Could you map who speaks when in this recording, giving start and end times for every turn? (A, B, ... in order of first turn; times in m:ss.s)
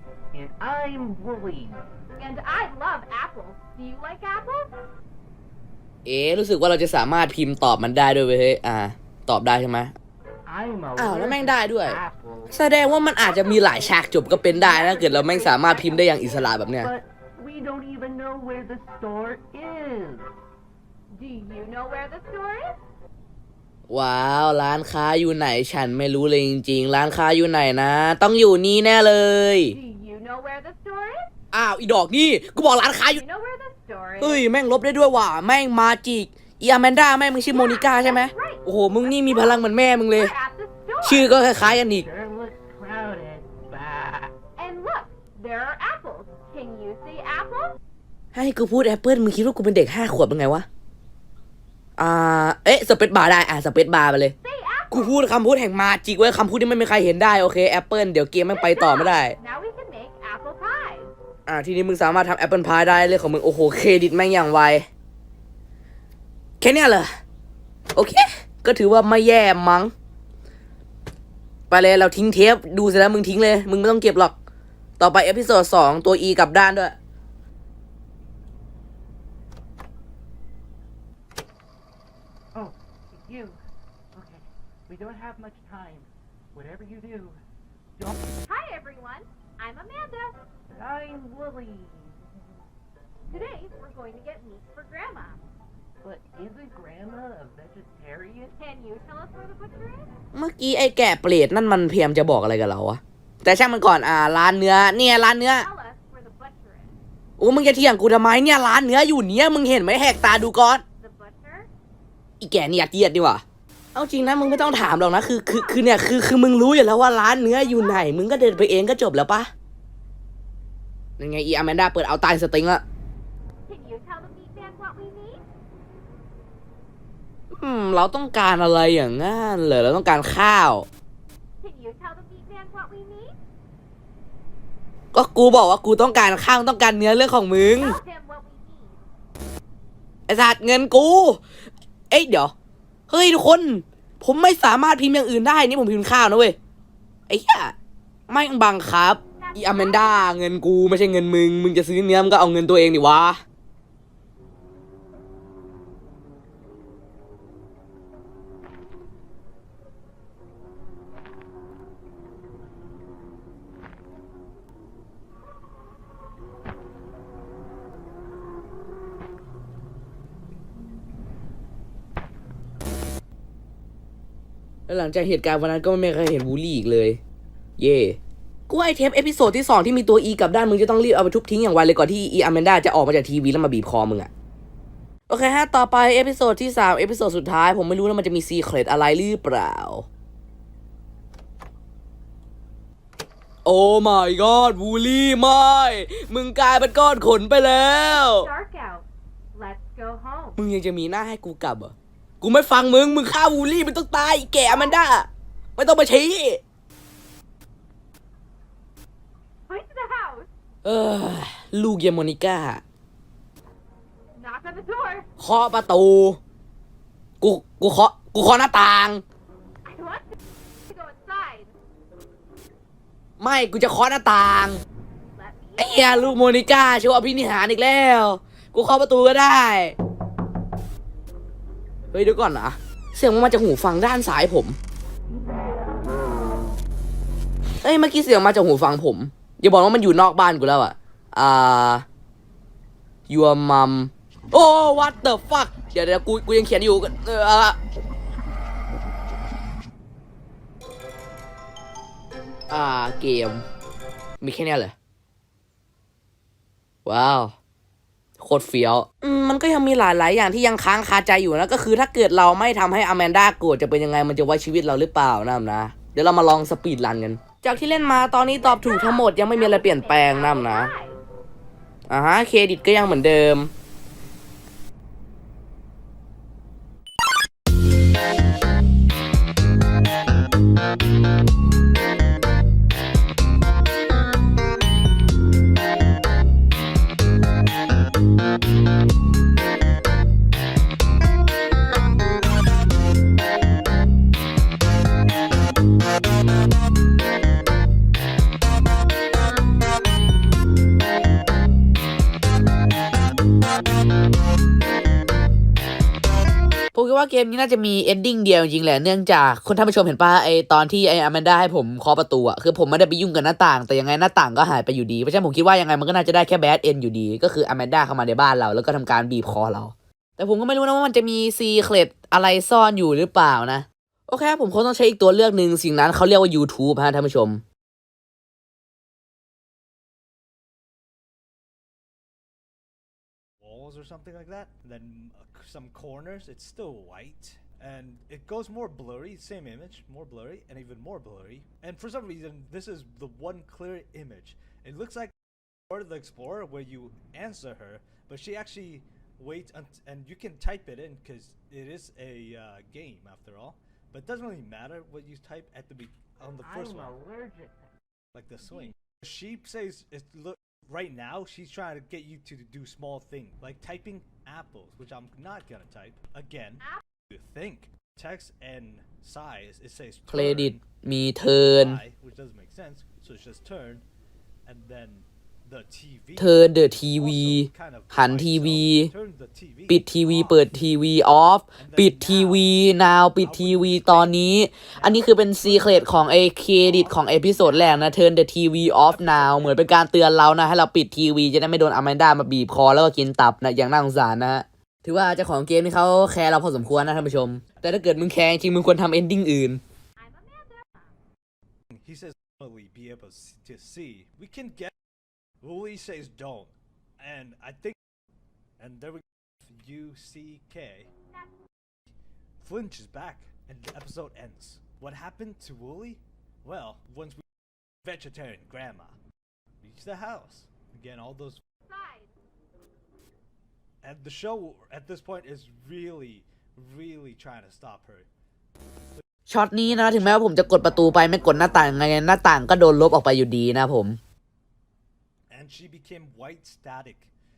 0:00.3-0:01.9 A
0:02.1-0:04.7 B
0:06.1-0:09.9 C
0:10.5-0:12.6 A
0:11.0-0:12.0 C
0:12.5-0:16.9 C
0:13.2-0:16.6 B
0:16.8-0:20.3 A
0:21.1-0:22.8 B
0:23.9-0:29.8 C
0:29.7-0:31.3 B
0:31.5-0:33.2 C
0:33.1-0:34.5 B
0:34.2-0:40.3 C
0:37.5-0:41.3 B
0:41.0-0:42.1 C
0:41.6-0:44.4 A
0:44.6-0:47.8 B
0:48.3-0:50.7 C
0:52.0-0:54.3 C
0:54.4-0:55.2 B
0:54.9-0:59.4 C
0:58.5-1:01.1 B
1:01.5-1:04.9 C
1:06.6-1:07.1 C
1:07.9-1:09.9 C
1:11.7-1:14.4 C
1:15.0-1:17.0 C
1:22.5-1:23.6 A
1:24.1-1:27.4 A
1:28.4-1:30.4 B
1:30.7-1:32.3 A
1:33.3-1:35.4 B
1:36.0-1:38.6 A
1:38.6-1:40.1 B
1:40.3-1:45.7 C
1:45.6-1:47.0 B
1:47.4-1:50.8 C
1:51.0-1:51.7 B
1:52.4-1:53.4 C
1:54.0-1:59.5 C
2:01.2-2:02.8 C
2:03.7-2:05.4 B
2:07.5-2:10.9 C
2:11.6-2:13.4 B
2:15.1-2:18.0 C
2:17.7-2:19.0 B
2:20.3-2:21.4 C
2:22.1-2:22.5 C
2:23.1-2:26.6 C
2:27.3-2:27.7 C
2:28.3-2:33.4 C
2:29.4-2:30.3 B
2:54.9-2:57.2 C
2:57.8-2:58.2 C
2:58.7-3:04.3 C
3:05.3-3:10.1 C
3:13.6-3:18.5 C
3:18.0-3:20.6 B
3:20.6-3:26.6 C
3:29.7-3:30.5 B
3:30.8-3:32.8 C
3:34.4-3:35.3 B
3:35.4-3:36.4 C
3:37.4-3:39.2 C
3:39.8-3:41.7 B
3:43.4-3:44.8 C
3:45.3-3:46.4 B
3:45.8-3:50.0 C
3:52.1-3:54.8 C
3:57.8-4:02.0 C
4:03.3-4:07.8 C
4:12.7-4:13.6 C
4:14.4-4:14.9 C
4:17.1-4:17.5 C
4:18.4-4:30.9 C
4:28.6-4:31.2 B
4:32.1-4:33.7 C
5:06.9-5:27.6 C
5:33.6-5:45.3 D
5:45.9-5:57.2 D
5:56.6-5:58.0 A
5:58.3-6:10.8 D
6:10.3-6:12.0 C
6:11.5-6:14.0 D
6:14.7-6:20.8 D
6:16.4-6:19.1 C
6:19.9-6:39.8 C
6:21.8-6:22.7 D
6:23.4-6:28.1 D
6:28.9-6:30.0 D
6:36.7-6:38.5 D
6:40.2-6:41.2 B
6:41.9-6:44.9 D
6:45.6-6:48.0 D
6:48.8-6:51.1 D
6:52.6-6:57.4 D
6:58.0-6:59.2 D
6:59.8-7:01.6 D
7:01.8-7:02.4 B
7:04.0-7:08.3 D
7:09.5-7:14.2 C
7:09.8-7:10.5 D
7:15.5-7:17.3 D